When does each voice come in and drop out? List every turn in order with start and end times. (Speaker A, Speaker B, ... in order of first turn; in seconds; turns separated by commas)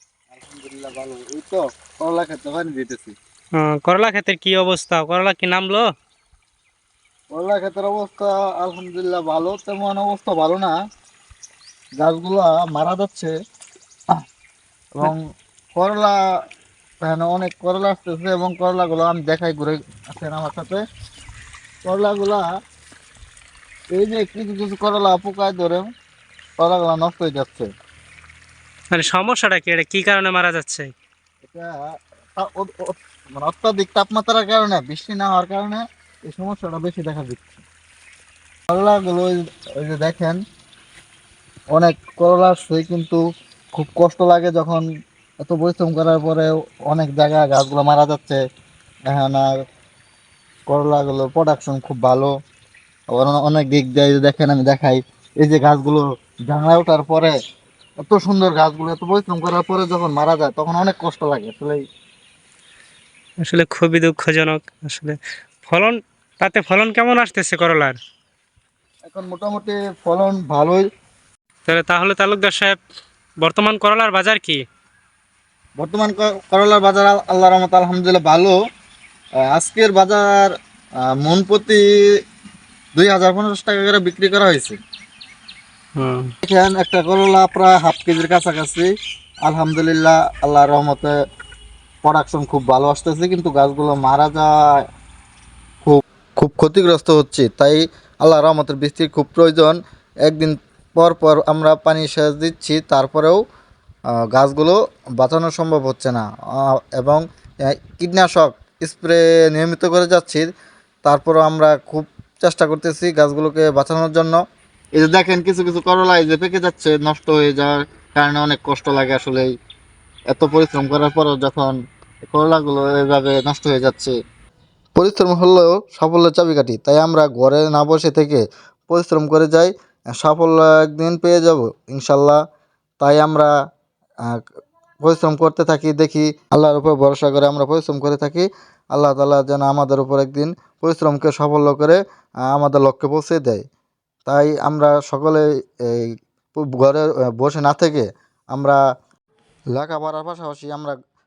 Speaker A: 0.3-3.1, Speaker B: 3.6-5.8, Speaker A: 7.3-10.7, Speaker A: 12.0-13.3, Speaker A: 14.9-15.2, Speaker A: 15.7-16.2, Speaker A: 17.0-20.8, Speaker A: 21.8-22.5, Speaker A: 23.9-25.9, Speaker A: 26.6-27.7, Speaker B: 28.9-30.9, Speaker A: 31.4-31.8, Speaker A: 32.4-37.6, Speaker A: 38.7-40.4, Speaker A: 41.7-43.2, Speaker A: 43.7-44.8, Speaker A: 45.4-48.4, Speaker A: 49.1-49.5, Speaker A: 50.7-52.3, Speaker A: 53.1-57.3, Speaker A: 58.0-61.8, Speaker B: 63.4-68.0, Speaker A: 69.1-70.8, Speaker B: 71.7-72.8, Speaker B: 73.4-74.6, Speaker A: 75.8-78.6, Speaker A: 79.5-80.5, Speaker A: 81.2-81.8, Speaker A: 83.0-84.8, Speaker B: 86.0-86.3, Speaker A: 86.4-88.9, Speaker A: 89.5-91.1, Speaker A: 92.0-94.5, Speaker A: 95.8-103.4, Speaker A: 104.3-106.3, Speaker A: 106.9-110.5, Speaker A: 111.0-114.4, Speaker A: 115.0-119.5, Speaker A: 120.3-121.7, Speaker A: 122.3-124.1, Speaker A: 124.9-132.4, Speaker A: 133.0-133.5, Speaker A: 135.0-143.7, Speaker A: 144.2-148.8, Speaker A: 149.7-150.9